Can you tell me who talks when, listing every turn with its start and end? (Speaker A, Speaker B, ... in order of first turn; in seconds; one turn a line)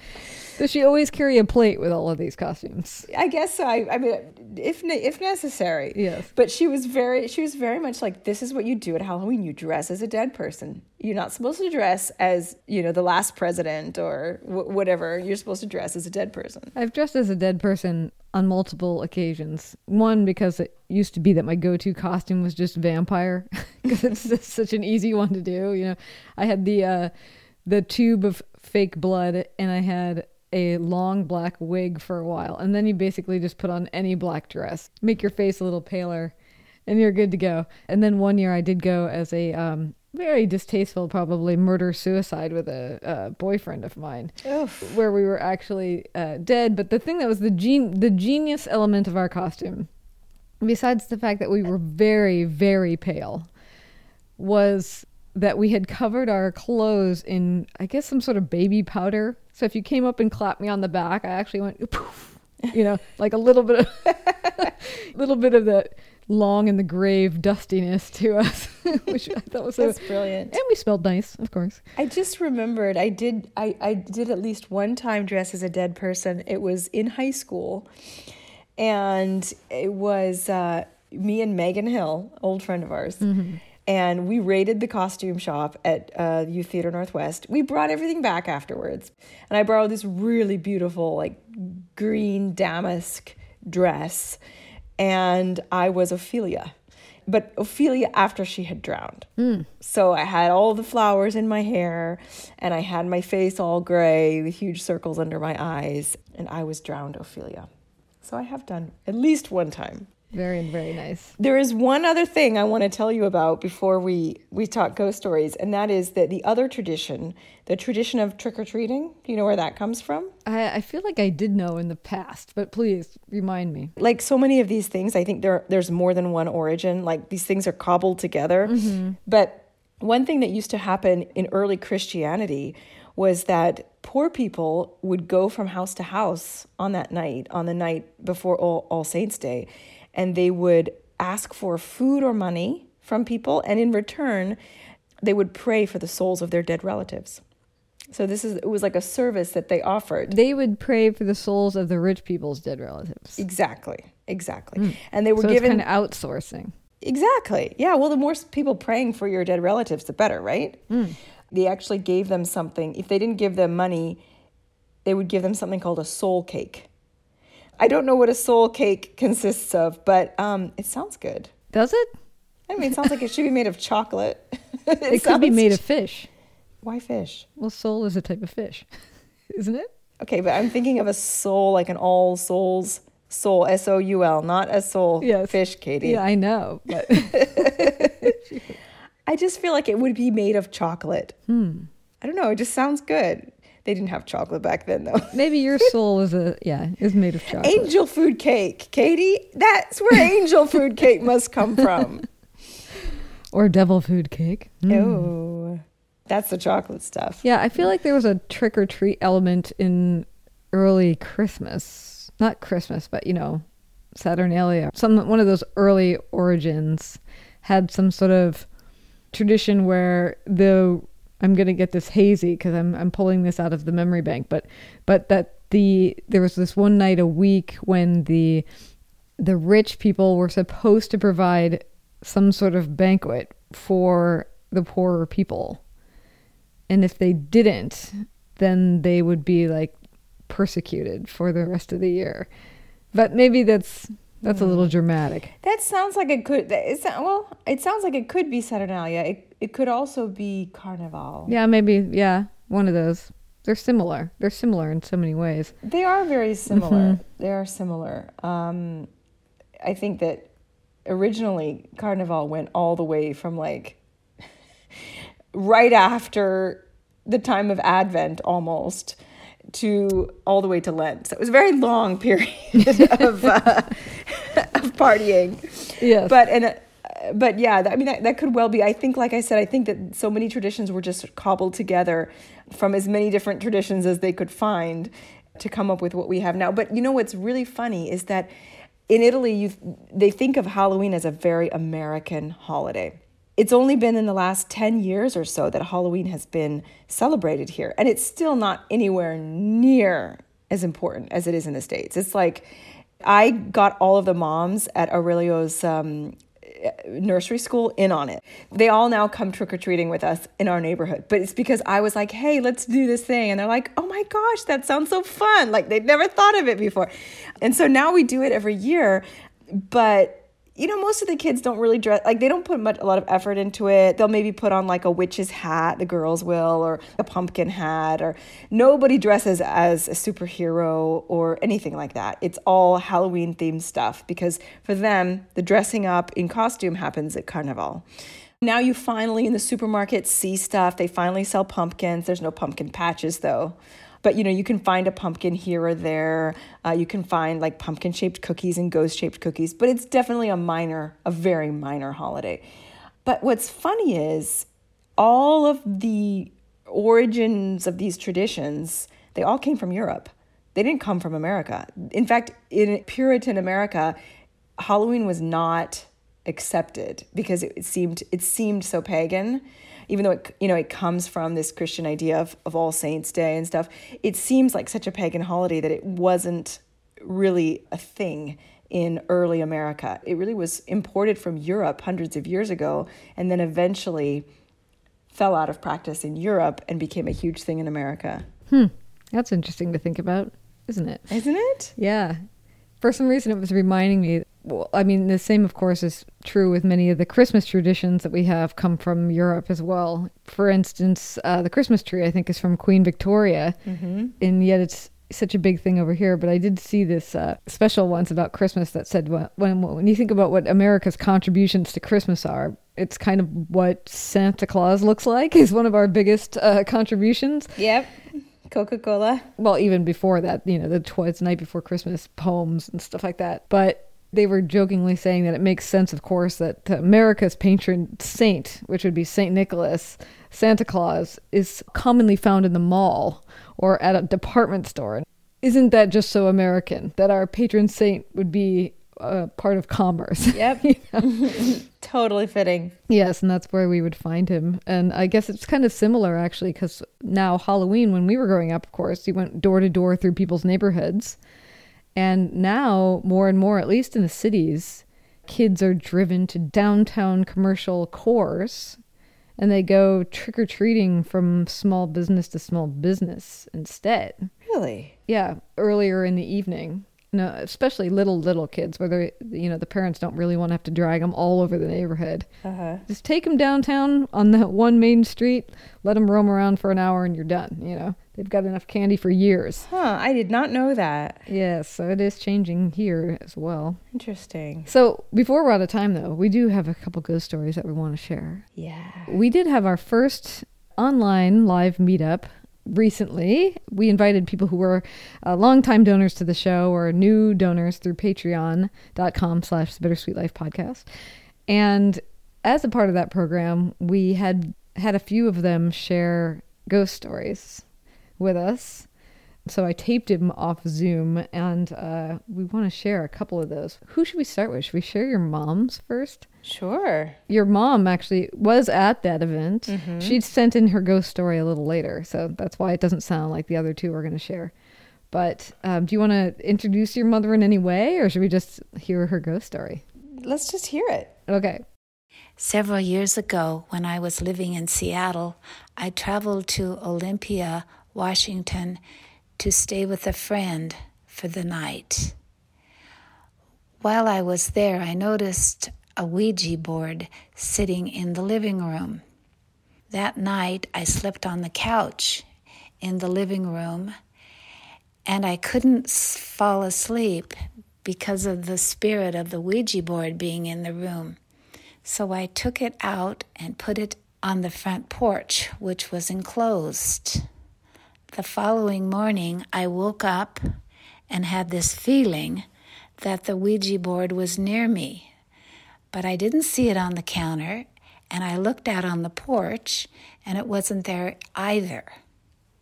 Speaker A: 0.6-3.1
Speaker B: 3.1-16.7
Speaker A: 5.9-6.3
Speaker A: 16.7-27.1
Speaker A: 27.6-36.3
Speaker A: 36.9-49.9
Speaker B: 44.4-45.0
Speaker A: 50.6-53.5
Speaker A: 54.4-71.8
Speaker B: 69.8-70.5
Speaker B: 72.0-77.9
Speaker B: 78.8-94.4
Speaker A: 83.2-83.6
Speaker B: 95.0-96.7
Speaker B: 97.3-99.3
Speaker A: 99.4-99.7
Speaker B: 99.8-107.7
Speaker B: 108.2-110.1
Speaker A: 110.3-111.3
Speaker B: 111.4-120.3
Speaker A: 120.5-123.9
Speaker B: 124.0-144.6
Speaker A: 128.7-129.2
Speaker B: 145.2-147.4
Speaker B: 148.1-150.3
Speaker A: 150.3-153.4
Speaker B: 153.4-155.8
Speaker A: 154.8-156.7
Speaker B: 157.0-160.9
Speaker A: 160.9-161.2
Speaker B: 161.5-164.2
Speaker B: 165.0-166.9
Speaker B: 167.8-171.5
Speaker A: 171.7-172.1
Speaker B: 172.7-175.8
Speaker A: 175.1-176.3
Speaker B: 176.8-177.4
Speaker A: 177.6-178.9
Speaker A: 179.5-179.9
Speaker B: 180.2-186.2
Speaker A: 185.2-188.7
Speaker B: 187.1-188.3
Speaker B: 189.3-191.4
Speaker A: 191.5-191.9
Speaker B: 192.2-195.8
Speaker A: 195.3-197.9
Speaker B: 197.6-202.3
Speaker A: 203.5-205.3
Speaker B: 204.9-207.4
Speaker A: 207.4-213.6
Speaker A: 214.1-218.7
Speaker A: 219.3-228.7
Speaker A: 229.4-235.8
Speaker A: 236.9-239.9
Speaker A: 240.5-242.5
Speaker A: 243.1-245.5
Speaker B: 244.4-244.9
Speaker B: 245.6-251.5
Speaker A: 251.5-255.7
Speaker B: 255.8-259.1
Speaker A: 256.7-257.2
Speaker B: 259.8-260.5
Speaker B: 261.1-264.0
Speaker B: 265.5-269.2
Speaker B: 269.7-288.5
Speaker A: 272.8-273.2
Speaker A: 276.0-276.4
Speaker B: 289.1-338.1
Speaker B: 338.6-352.6
Speaker B: 353.2-354.7
Speaker B: 355.2-364.1
Speaker B: 364.8-384.5
Speaker B: 385.3-388.5
Speaker A: 388.7-391.3
Speaker B: 391.3-391.9
Speaker A: 391.9-392.4
Speaker A: 393.0-403.8
Speaker B: 403.9-404.3
Speaker A: 404.4-417.8
Speaker B: 417.8-419.5
Speaker A: 419.6-441.5
Speaker B: 440.5-442.9
Speaker A: 443.1-451.4
Speaker A: 452.1-459.0
Speaker A: 459.6-464.5
Speaker B: 464.6-465.1
Speaker A: 465.3-472.5
Speaker B: 472.6-473.0
Speaker A: 473.1-479.9
Speaker B: 479.9-481.4
Speaker A: 481.5-484.0
Speaker B: 484.1-484.9
Speaker A: 484.9-488.6
Speaker B: 488.8-489.3
Speaker A: 489.3-501.1
Speaker A: 501.7-507.8
Speaker A: 508.4-509.1
Speaker A: 509.6-516.4
Speaker B: 516.6-517.4
Speaker A: 517.5-524.7
Speaker B: 519.9-520.4
Speaker A: 525.3-530.0
Speaker B: 530.4-531.3
Speaker A: 531.5-531.8
Speaker C: 532.6-539.0
Speaker C: 539.6-542.3
Speaker C: 544.0-549.2
Speaker C: 550.1-552.4
Speaker C: 553.0-554.1
Speaker C: 555.2-561.4
Speaker C: 562.0-567.5
Speaker C: 568.3-570.6
Speaker C: 571.3-572.7
Speaker C: 573.2-575.3
Speaker C: 576.1-582.1